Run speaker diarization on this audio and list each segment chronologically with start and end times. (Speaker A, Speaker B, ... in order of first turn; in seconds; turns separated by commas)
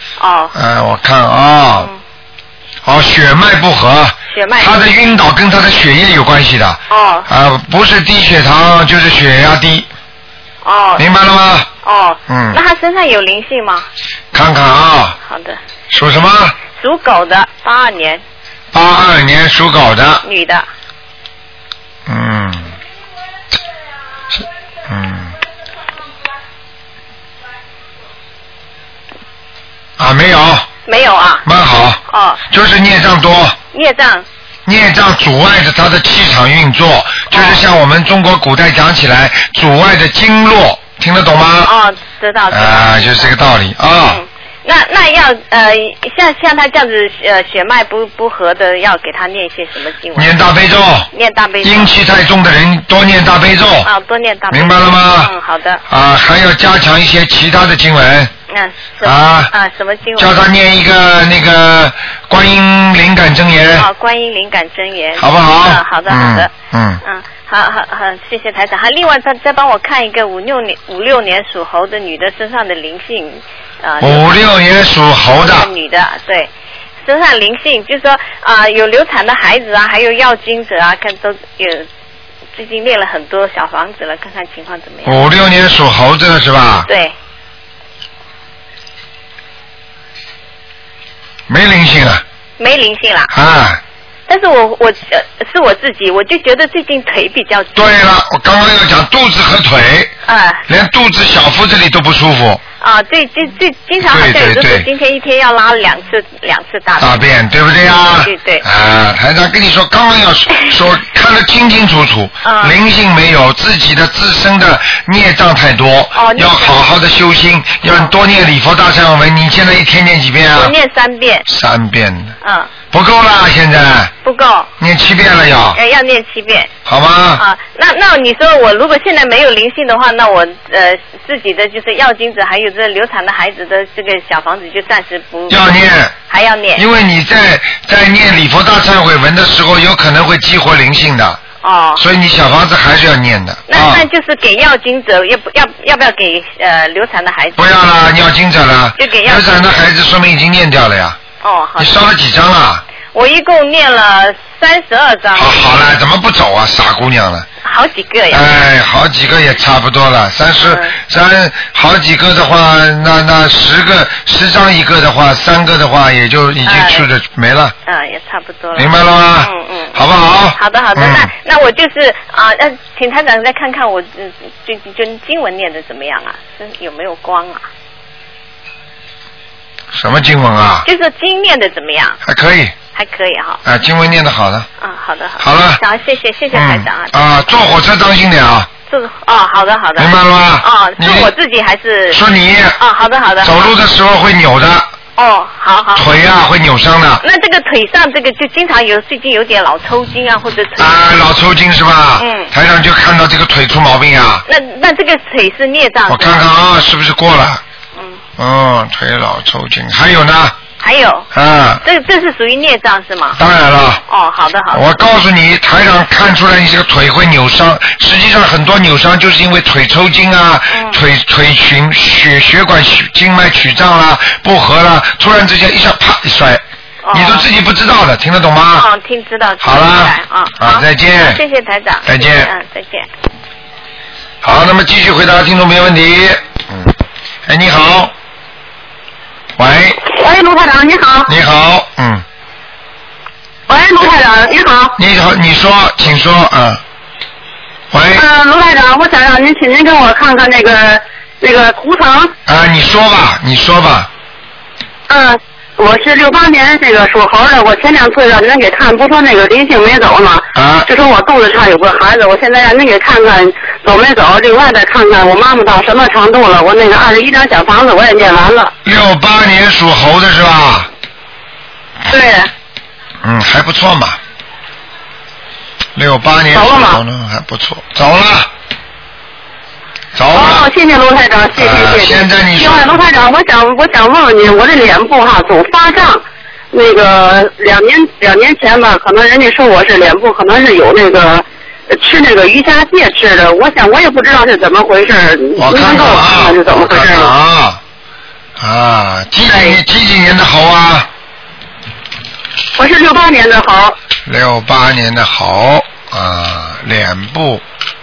Speaker A: 0.2-0.5, Speaker B: 0.5-1.9, Speaker B: 2.8-9.9, Speaker A: 4.3-4.8, Speaker A: 6.9-7.3, Speaker A: 10.6-11.0, Speaker B: 11.0-11.7, Speaker A: 11.8-13.8, Speaker B: 12.3-12.6, Speaker B: 14.3-15.2, Speaker A: 15.2-15.6, Speaker B: 15.9-16.6, Speaker A: 16.8-18.2, Speaker B: 18.7-20.2, Speaker A: 20.2-20.6, Speaker B: 22.1-22.7, Speaker B: 24.9-25.3, Speaker B: 30.0-30.7, Speaker A: 30.9-31.4, Speaker B: 31.4-33.6, Speaker A: 32.1-32.4, Speaker A: 33.7-34.2, Speaker B: 34.6-41.7, Speaker A: 37.3-37.6, Speaker A: 41.6-43.3, Speaker B: 42.5-44.2, Speaker A: 44.0-50.3, Speaker B: 50.1-51.1, Speaker A: 51.1-51.9, Speaker B: 51.6-53.9, Speaker A: 53.8-55.8, Speaker B: 54.5-55.3, Speaker B: 55.9-58.3, Speaker A: 58.5-60.4, Speaker B: 59.0-59.5, Speaker B: 60.2-63.9, Speaker A: 63.8-66.5, Speaker B: 65.2-67.0, Speaker A: 67.0-74.5, Speaker B: 74.0-75.7, Speaker A: 75.3-76.5, Speaker A: 77.0-81.9, Speaker A: 82.5-85.3, Speaker B: 85.0-86.9, Speaker A: 86.8-87.1, Speaker B: 91.5-92.2, Speaker A: 92.6-93.3, Speaker B: 93.3-93.8, Speaker A: 94.3-97.9, Speaker B: 97.7-100.1, Speaker A: 100.2-100.6, Speaker B: 100.7-102.6, Speaker A: 102.8-107.2, Speaker B: 104.0-104.9, Speaker B: 107.0-120.7, Speaker A: 108.2-108.6, Speaker A: 112.4-112.8, Speaker A: 116.1-116.8, Speaker A: 120.5-121.4, Speaker B: 121.5-122.3, Speaker A: 122.4-122.7, Speaker B: 122.9-124.1, Speaker A: 124.2-124.7, Speaker B: 124.8-125.8, Speaker A: 125.7-126.7, Speaker B: 126.8-127.4, Speaker A: 127.4-135.7, Speaker B: 135.5-136.1, Speaker A: 136.3-136.8, Speaker B: 136.8-141.4, Speaker A: 141.6-142.0, Speaker B: 142.0-144.1, Speaker A: 143.7-147.7, Speaker B: 147.6-151.2, Speaker A: 149.0-149.6, Speaker A: 151.4-152.0, Speaker B: 151.8-152.8, Speaker A: 153.1-155.6, Speaker B: 155.3-157.5, Speaker A: 157.6-158.4, Speaker B: 158.3-167.7, Speaker A: 160.6-160.9, Speaker A: 166.7-167.1, Speaker A: 167.8-170.0, Speaker B: 168.7-171.3, Speaker A: 170.5-177.7, Speaker B: 179.9-180.9, Speaker A: 180.8-182.2, Speaker B: 182.2-182.8, Speaker A: 182.9-183.6, Speaker B: 183.6-184.7, Speaker A: 184.8-187.7, Speaker B: 185.4-185.8, Speaker B: 186.5-188.7, Speaker A: 188.9-192.2, Speaker B: 190.0-191.3, Speaker B: 192.1-192.8, Speaker A: 192.8-193.7, Speaker B: 193.4-194.9, Speaker A: 195.2-196.1, Speaker B: 195.9-197.2, Speaker A: 197.2-200.9, Speaker B: 200.8-204.4, Speaker A: 202.2-202.5, Speaker A: 204.5-206.5, Speaker B: 206.1-207.6, Speaker B: 208.4-210.6, Speaker A: 210.8-211.3, Speaker B: 211.3-211.8, Speaker A: 211.8-213.4, Speaker B: 213.4-214.0, Speaker A: 214.1-214.8, Speaker B: 214.7-228.9, Speaker A: 220.7-221.0, Speaker A: 227.0-227.5, Speaker A: 228.7-233.1, Speaker B: 229.6-231.4, Speaker B: 232.0-232.5, Speaker B: 234.4-236.9, Speaker B: 237.4-238.1, Speaker B: 239.6-240.0, Speaker C: 240.1-241.3, Speaker B: 241.2-242.2, Speaker C: 243.7-244.9, Speaker B: 245.0-246.8, Speaker B: 247.9-248.3, Speaker C: 248.2-252.3, Speaker B: 252.4-254.1, Speaker C: 255.1-268.7, Speaker B: 260.5-260.9, Speaker B: 268.8-270.9, Speaker C: 272.1-272.5, Speaker B: 273.2-274.2, Speaker B: 275.9-278.5, Speaker C: 276.5-277.0, Speaker B: 280.1-280.7, Speaker C: 280.3-286.2, Speaker B: 281.5-283.0, Speaker C: 286.7-297.3, Speaker B: 295.6-297.8, Speaker B: 298.6-301.1, Speaker C: 299.4-299.8, Speaker C: 302.8-303.9, Speaker B: 304.2-307.6